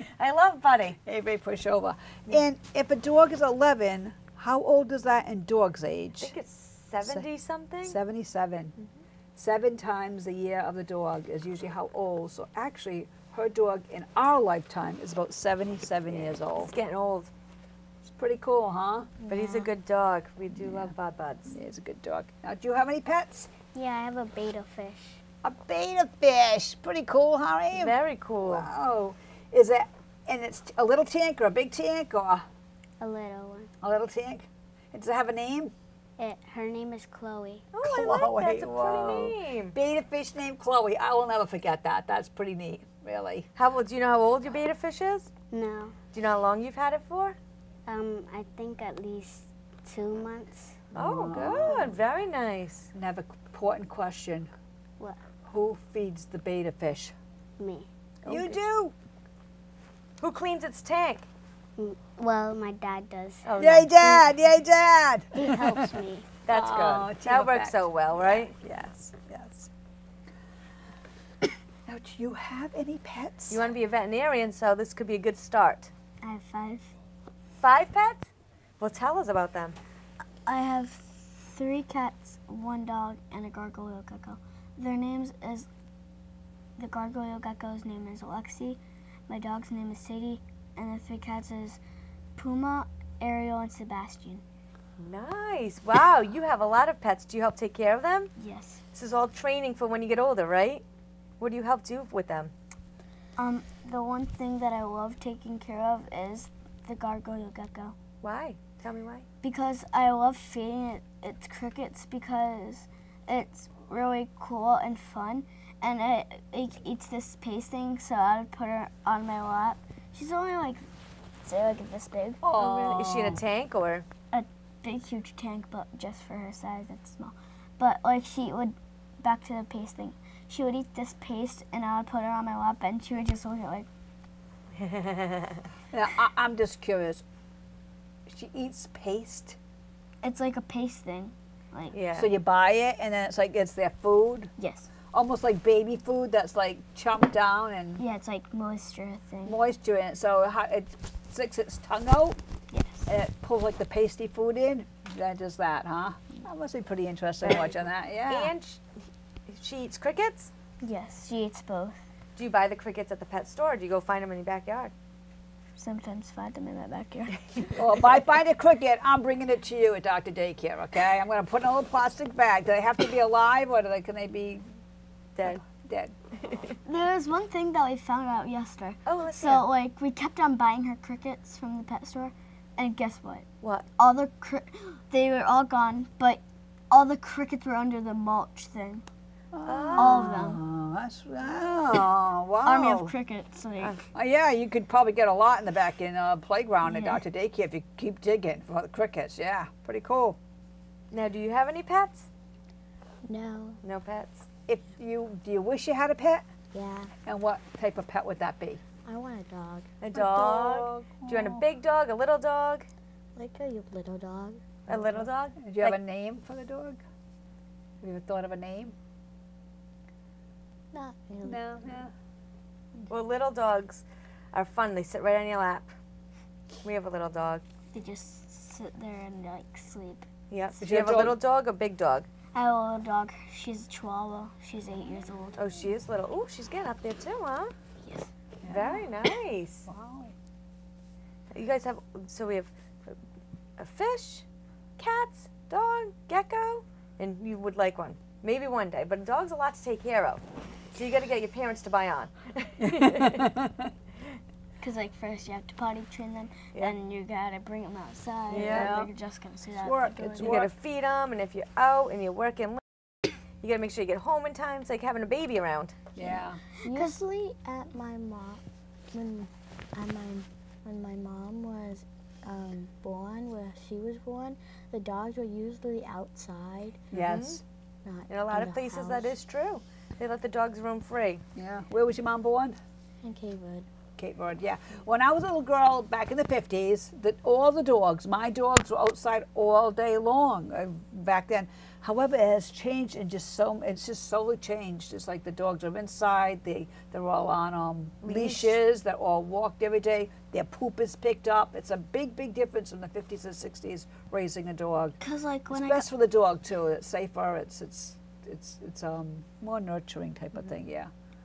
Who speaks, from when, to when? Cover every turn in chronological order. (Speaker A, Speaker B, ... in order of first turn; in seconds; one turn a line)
Speaker A: 0.2-1.0
Speaker B: 0.9-6.3
Speaker A: 6.2-8.0
Speaker B: 7.0-7.3
Speaker B: 7.8-8.8
Speaker B: 9.3-16.7
Speaker A: 16.1-17.3
Speaker B: 18.0-19.1
Speaker C: 19.2-19.7
Speaker A: 19.3-21.5
Speaker B: 20.5-20.9
Speaker B: 21.5-23.5
Speaker D: 23.7-25.2
Speaker B: 25.4-27.9
Speaker A: 27.7-28.7
Speaker B: 28.5-32.4
Speaker D: 33.0-33.7
Speaker B: 33.8-35.7
Speaker D: 36.2-37.7
Speaker A: 37.7-39.8
Speaker B: 37.8-43.5
Speaker A: 43.5-45.3
Speaker D: 45.5-46.0
Speaker A: 46.1-47.4
Speaker D: 47.9-50.8
Speaker B: 50.9-52.0
Speaker A: 50.9-52.9
Speaker B: 52.9-54.5
Speaker B: 55.4-57.1
Speaker D: 57.6-57.9
Speaker A: 58.2-58.6
Speaker B: 58.2-58.9
Speaker A: 60.2-61.3
Speaker D: 61.8-64.2
Speaker A: 63.4-64.1
Speaker B: 63.6-65.9
Speaker D: 65.3-66.3
Speaker A: 66.5-68.5
Speaker B: 66.5-69.7
Speaker B: 71.8-73.7
Speaker A: 73.5-75.9
Speaker E: 76.2-76.9
Speaker A: 77.6-79.8
Speaker E: 80.5-85.7
Speaker E: 86.8-91.8
Speaker E: 92.3-94.4
Speaker A: 95.0-98.3
Speaker E: 98.4-98.8
Speaker A: 98.9-100.8
Speaker A: 101.4-102.5
Speaker E: 103.4-108.0
Speaker A: 108.2-109.2
Speaker E: 109.4-120.8
Speaker E: 121.4-122.4
Speaker B: 122.4-123.4
Speaker A: 122.5-124.0
Speaker E: 124.3-133.9
Speaker A: 134.8-135.7
Speaker B: 135.9-137.2
Speaker B: 138.2-139.6
Speaker E: 140.2-142.0
Speaker A: 141.9-142.3
Speaker B: 142.2-144.5
Speaker E: 144.6-144.9
Speaker B: 145.1-148.0
Speaker E: 148.0-149.6
Speaker B: 149.4-152.4
Speaker E: 152.7-153.1
Speaker B: 153.1-158.5
Speaker A: 157.4-160.5
Speaker E: 160.8-162.0
Speaker A: 162.4-164.9
Speaker E: 165.8-167.8
Speaker B: 167.8-174.6
Speaker A: 175.3-175.6
Speaker B: 175.4-176.1
Speaker A: 176.4-176.8
Speaker E: 176.8-183.4
Speaker A: 179.1-179.7
Speaker E: 184.0-189.0
Speaker B: 189.5-193.1
Speaker A: 189.6-190.4
Speaker E: 189.9-190.6
Speaker E: 192.6-194.0
Speaker B: 194.1-200.4
Speaker E: 196.8-197.2
Speaker A: 201.1-202.3
Speaker C: 203.2-203.8
Speaker A: 203.8-204.5
Speaker B: 204.7-206.4
Speaker C: 206.7-207.1
Speaker B: 207.2-208.8
Speaker C: 209.0-209.9
Speaker A: 210.0-212.9
Speaker B: 210.1-211.6
Speaker C: 213.3-214.6
Speaker A: 214.9-216.0
Speaker B: 214.9-217.0
Speaker B: 218.0-218.9
Speaker C: 220.9-221.8
Speaker B: 221.4-222.1
Speaker A: 223.1-225.9
Speaker A: 226.8-227.6
Speaker E: 227.9-230.3
Speaker A: 230.5-232.3
Speaker B: 230.8-231.4
Speaker E: 232.5-235.6
Speaker A: 235.6-237.7
Speaker E: 238.0-238.3
Speaker B: 238.6-239.1
Speaker A: 238.7-239.8
Speaker B: 239.8-240.3
Speaker A: 241.5-243.2
Speaker A: 243.8-244.4
Speaker A: 245.0-253.4
Speaker B: 252.8-253.9
Speaker E: 254.8-260.6
Speaker A: 258.5-259.1
Speaker B: 258.5-259.1
Speaker B: 259.7-260.7
Speaker A: 260.4-262.8
Speaker A: 263.6-266.1
Speaker B: 266.1-266.6
Speaker C: 266.8-277.0
Speaker E: 266.9-267.2
Speaker A: 277.1-277.6
Speaker B: 277.1-277.6
Speaker C: 278.0-279.3
Speaker A: 278.3-281.4
Speaker B: 281.6-282.8
Speaker C: 283.2-283.9
Speaker B: 284.1-305.2
Speaker A: 298.2-298.8
Speaker E: 305.2-306.1
Speaker B: 305.7-311.1